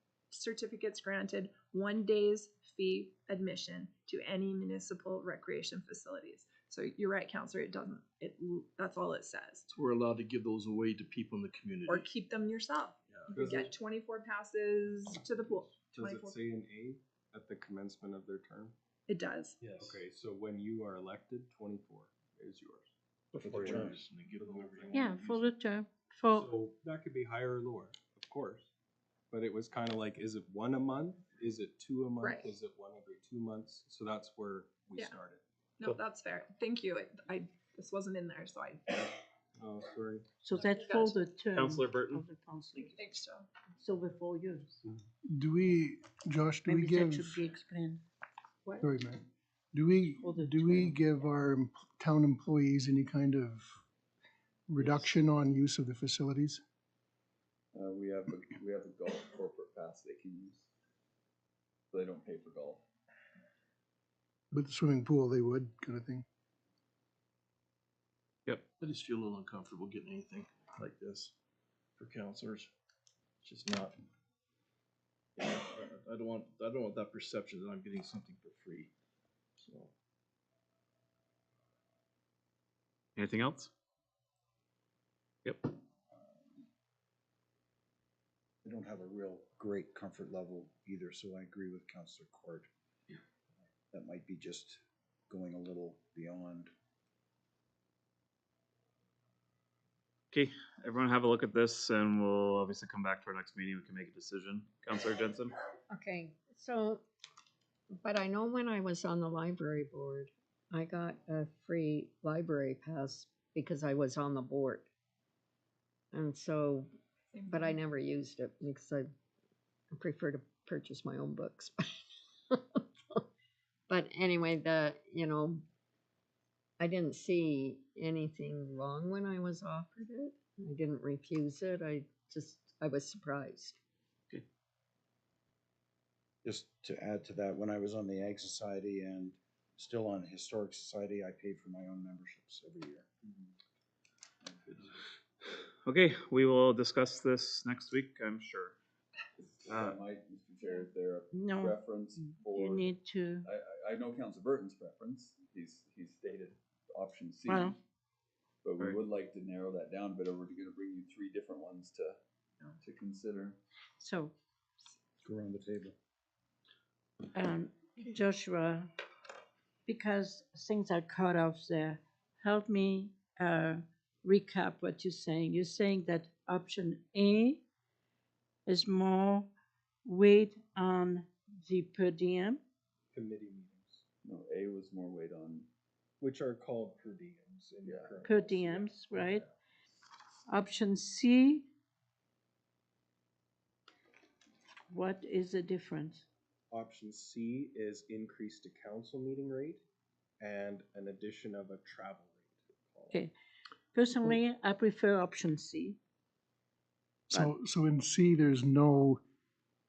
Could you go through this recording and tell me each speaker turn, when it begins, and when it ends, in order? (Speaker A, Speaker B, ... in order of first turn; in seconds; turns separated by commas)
Speaker A: 0.3-9.7, Speaker B: 9.7-12.1, Speaker A: 11.9-16.4, Speaker B: 13.1-13.8, Speaker C: 13.3-13.7, Speaker B: 15.4-15.8, Speaker C: 15.8-18.7, Speaker A: 19.1-19.6, Speaker B: 19.6-20.0, Speaker C: 19.7-22.9, Speaker B: 23.3-25.5, Speaker D: 23.4-24.0, Speaker C: 23.5-25.1, Speaker E: 24.9-26.5, Speaker C: 26.3-28.7, Speaker C: 29.3-35.4, Speaker A: 32.2-32.5, Speaker A: 35.8-38.8, Speaker C: 39.5-40.2, Speaker E: 40.4-43.0, Speaker A: 40.5-41.2, Speaker F: 41.5-42.2, Speaker A: 42.7-43.5, Speaker E: 43.8-44.8, Speaker G: 45.2-47.5, Speaker E: 46.6-48.0, Speaker G: 48.8-49.2, Speaker G: 49.7-53.6, Speaker E: 50.2-51.0, Speaker G: 54.7-56.6, Speaker H: 57.7-60.7, Speaker H: 61.9-62.8, Speaker G: 64.5-66.2, Speaker B: 68.8-71.3, Speaker B: 72.0-72.7, Speaker B: 73.4-74.0, Speaker B: 75.4-78.9, Speaker B: 79.6-79.9, Speaker F: 83.2-83.7, Speaker D: 88.6-92.7, Speaker D: 93.9-96.7, Speaker F: 100.3-105.5, Speaker I: 105.9-107.0, Speaker I: 108.0-114.8, Speaker I: 116.1-116.9, Speaker A: 117.3-117.8, Speaker I: 117.5-119.1, Speaker I: 119.9-121.8, Speaker I: 122.5-123.2, Speaker I: 123.9-125.6, Speaker I: 126.8-133.8, Speaker D: 136.4-143.1, Speaker B: 144.6-145.0, Speaker F: 145.8-148.8, Speaker H: 149.4-152.9, Speaker F: 149.7-150.0, Speaker A: 150.6-150.9, Speaker E: 151.3-153.5, Speaker H: 153.4-157.8, Speaker E: 157.5-157.8, Speaker H: 158.6-162.2, Speaker H: 162.8-163.6, Speaker E: 164.0-164.3, Speaker D: 165.2-165.9, Speaker E: 167.3-168.9, Speaker E: 169.8-177.6, Speaker E: 178.7-179.5, Speaker E: 180.0-182.6, Speaker C: 183.1-184.0, Speaker H: 184.2-185.7, Speaker C: 186.2-189.5, Speaker H: 187.8-188.1, Speaker E: 188.2-189.4, Speaker E: 190.5-191.7, Speaker E: 194.9-196.2, Speaker C: 196.7-199.8, Speaker C: 200.4-203.2, Speaker E: 203.9-206.0, Speaker G: 207.3-209.2